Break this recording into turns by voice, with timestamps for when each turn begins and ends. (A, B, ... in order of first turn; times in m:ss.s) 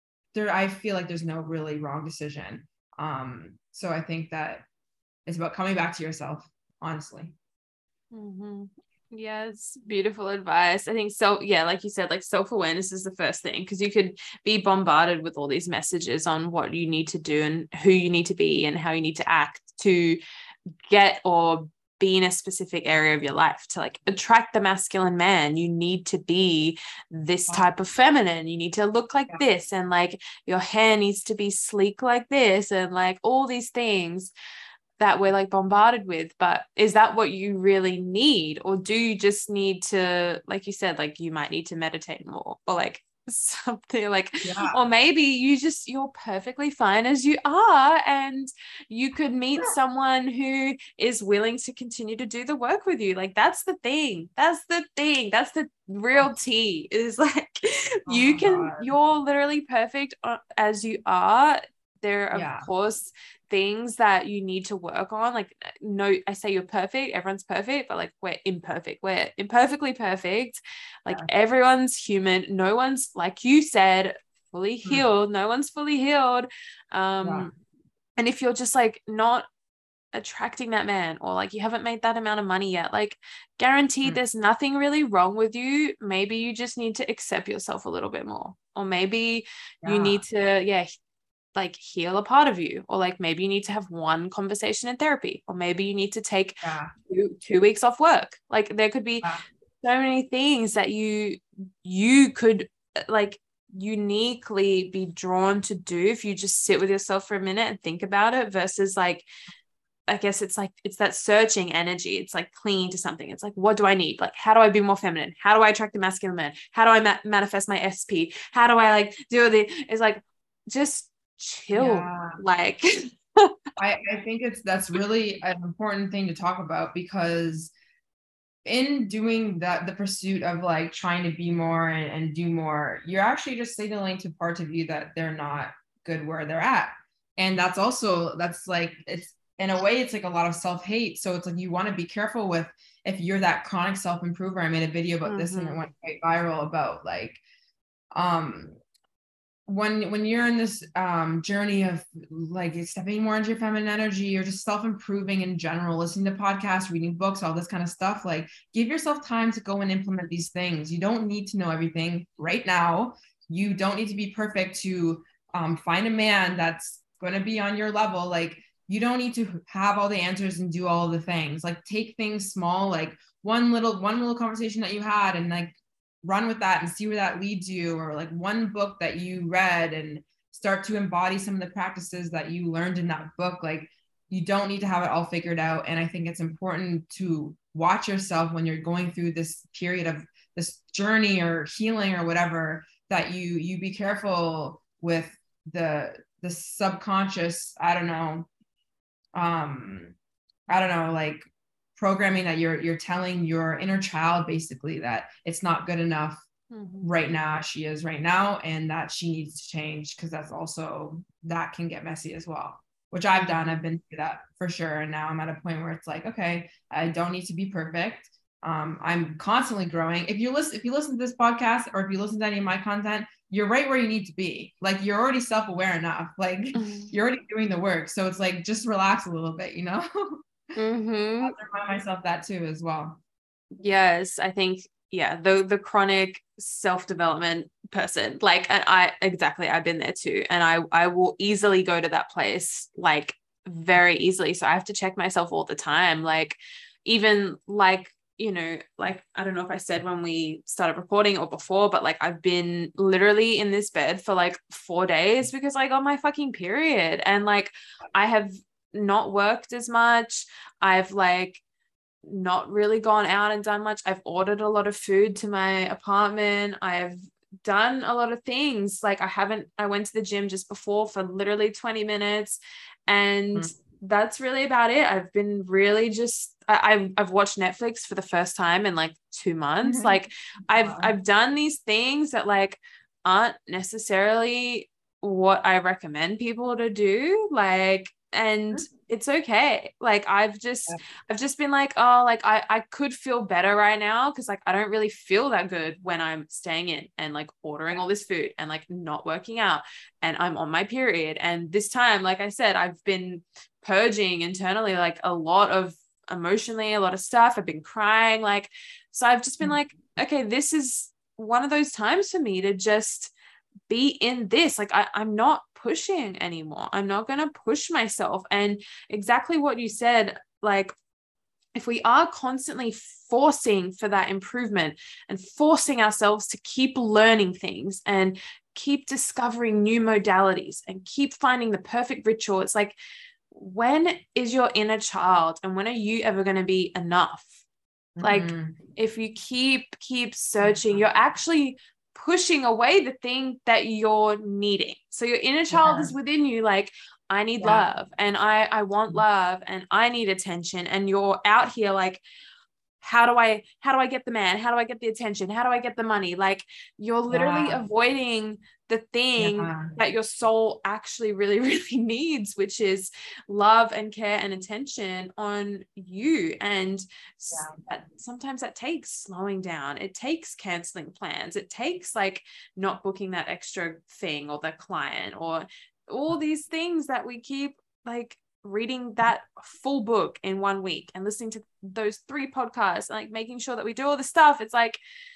0:00.3-0:04.6 A
0:05.3-0:07.4 A
0:08.1-0:20.2 B
0:20.9-0:34.3 B
0:35.0-1:17.5 B
0:44.4-0:44.8 A
0:58.1-0:58.9 A
1:02.3-1:02.7 A
1:17.2-1:17.5 A
1:18.2-1:19.5 B
1:20.1-1:30.9 B
1:29.8-1:30.2 A
1:31.6-1:49.3 B
1:36.6-1:36.9 A
1:50.1-2:03.5 B
2:01.7-2:02.4 A
2:03.8-2:07.7 A
2:08.6-2:27.4 A
2:25.3-2:25.8 B
2:28.1-2:28.8 A
2:29.7-3:18.5 A
3:19.4-3:20.2 A
3:20.7-3:21.4 A
3:22.0-3:26.4 A
3:26.7-3:27.1 B
3:27.0-3:50.4 A
3:33.3-3:33.8 B
3:46.8-3:47.1 B
3:50.8-3:51.6 B
3:51.4-3:53.2 A
3:53.8-4:21.6 B
4:22.2-5:13.3 B
4:39.8-4:40.2 A
4:40.7-4:41.2 A
5:13.9-5:20.9 B
5:21.8-5:33.0 B
5:33.5-5:37.5 B
5:38.2-5:38.8 A
5:38.2-5:52.2 B
5:40.6-5:41.0 A
5:45.7-5:46.1 A
5:47.6-5:47.8 A
5:53.0-6:25.0 B
5:57.3-5:57.8 A
5:59.4-6:00.0 A
6:07.5-6:07.8 A